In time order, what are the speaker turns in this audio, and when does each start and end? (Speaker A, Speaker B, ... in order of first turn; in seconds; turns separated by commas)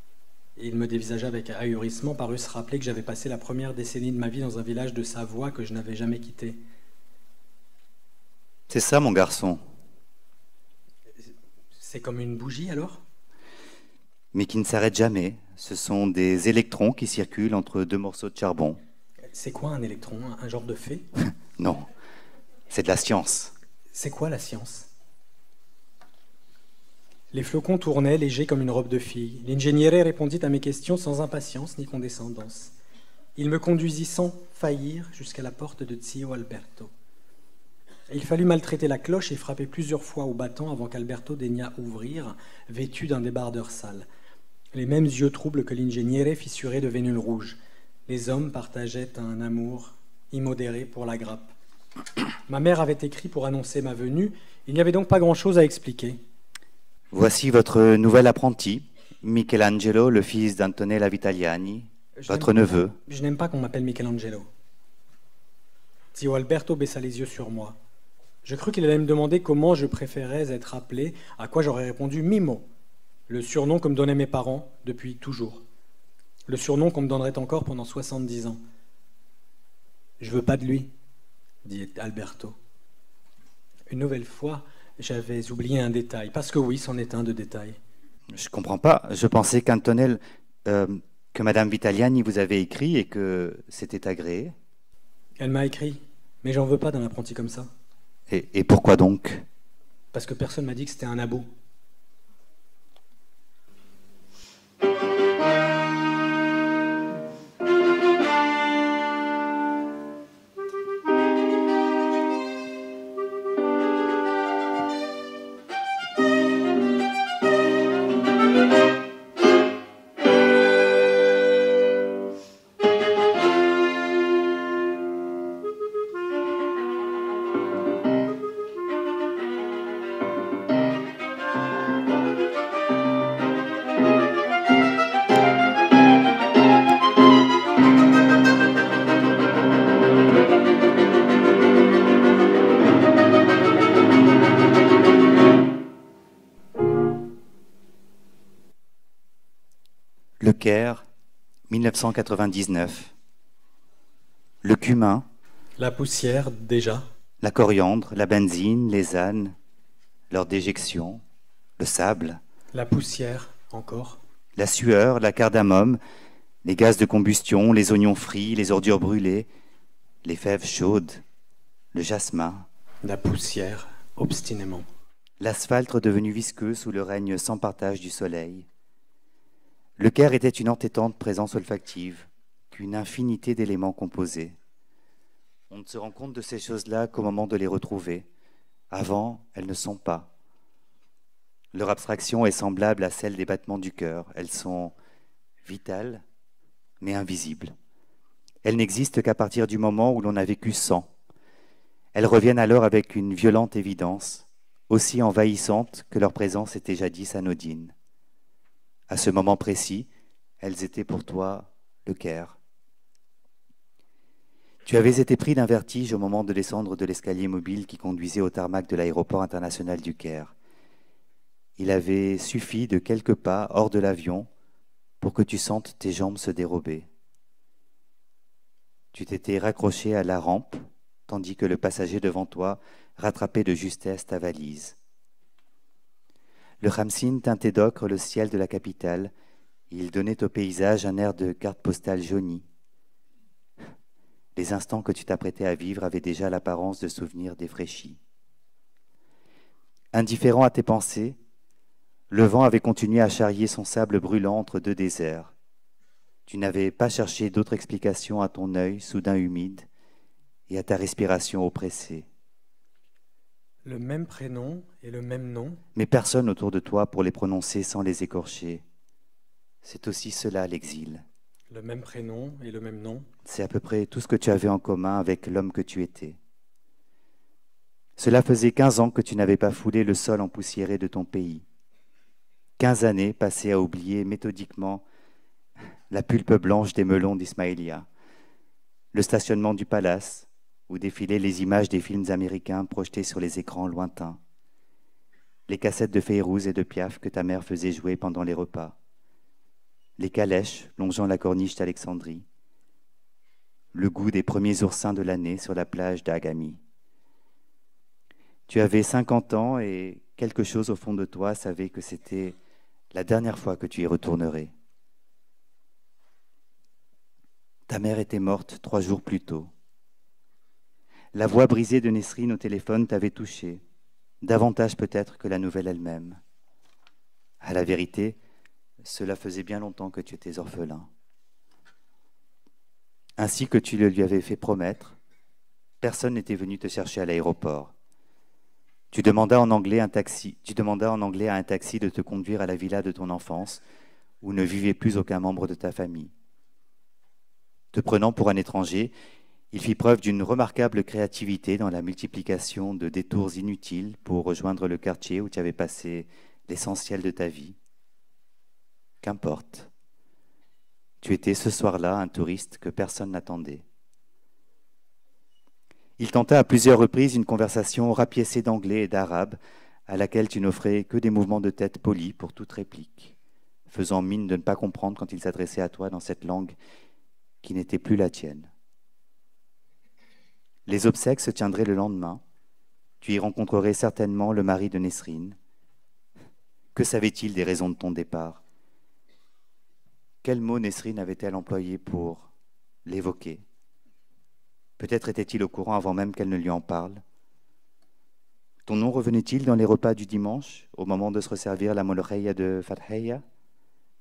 Speaker A: 0.6-6.6, Speaker B: 8.7-9.6, Speaker A: 11.2-13.0, Speaker B: 14.3-18.8, Speaker A: 19.3-21.1, Speaker B: 21.6-21.8, Speaker B: 22.7-23.5, Speaker A: 23.9-24.9, Speaker A: 27.3-32.7, Speaker A: 33.4-36.9, Speaker A: 38.1-44.0, Speaker A: 44.7-51.5, Speaker A: 52.5-56.2, Speaker B: 57.1-62.9, Speaker A: 62.2-64.5, Speaker A: 66.1-67.8, Speaker A: 68.4-72.7, Speaker A: 73.3-75.6, Speaker A: 76.5-78.6, Speaker A: 80.2-80.9, Speaker A: 81.6-82.5, Speaker A: 83.9-87.8, Speaker B: 88.3-94.5, Speaker A: 95.4-97.7, Speaker B: 98.3-99.4, Speaker A: 100.1-101.5, Speaker B: 150.4-151.0, Speaker B: 151.7-153.1, Speaker B: 154.6-155.2, Speaker A: 155.8-157.1, Speaker B: 157.4-159.5, Speaker B: 160.3-161.2, Speaker B: 161.8-162.4, Speaker A: 162.7-164.2, Speaker B: 164.6-166.0, Speaker B: 166.6-169.5, Speaker B: 170.2-171.2, Speaker B: 171.9-172.7, Speaker A: 173.0-174.8, Speaker B: 175.4-178.7, Speaker B: 180.0-184.6, Speaker B: 185.7-188.3, Speaker B: 188.9-190.3, Speaker B: 191.7-194.9, Speaker B: 195.6-196.2, Speaker B: 197.0-197.7, Speaker B: 198.6-201.1, Speaker B: 202.1-207.9, Speaker B: 209.1-210.1, Speaker B: 210.6-212.6, Speaker B: 214.8-220.5, Speaker B: 221.8-224.5, Speaker B: 225.2-227.1, Speaker B: 229.1-234.9, Speaker B: 236.8-239.3, Speaker B: 239.9-242.7, Speaker B: 244.5-248.2, Speaker B: 250.1-251.4, Speaker B: 252.3-255.5, Speaker B: 256.5-259.9, Speaker B: 260.7-262.3, Speaker A: 263.8-265.8, Speaker B: 265.9-268.8, Speaker B: 269.8-271.2, Speaker A: 271.7-273.3, Speaker B: 273.4-276.4, Speaker B: 278.2-281.6, Speaker B: 282.8-285.0, Speaker B: 286.1-288.1, Speaker B: 289.1-294.4, Speaker B: 295.7-298.9, Speaker B: 300.2-302.4, Speaker B: 303.9-306.8, Speaker B: 308.7-312.6, Speaker B: 313.1-314.7, Speaker B: 317.9-319.7, Speaker B: 321.3-323.8, Speaker B: 324.4-326.4, Speaker B: 327.6-328.4, Speaker B: 329.0-331.1, Speaker B: 333.4-335.1, Speaker B: 336.0-337.9, Speaker B: 339.1-343.8, Speaker B: 344.4-346.3, Speaker B: 347.9-349.1, Speaker B: 349.7-357.8, Speaker B: 359.2-359.9, Speaker B: 361.2-363.8, Speaker B: 366.2-373.3, Speaker B: 373.9-376.8, Speaker B: 377.6-378.7, Speaker B: 380.9-382.4, Speaker B: 383.2-385.6, Speaker B: 386.9-388.6, Speaker B: 390.4-392.5, Speaker B: 393.1-393.6, Speaker B: 395.0-397.2, Speaker B: 398.9-403.4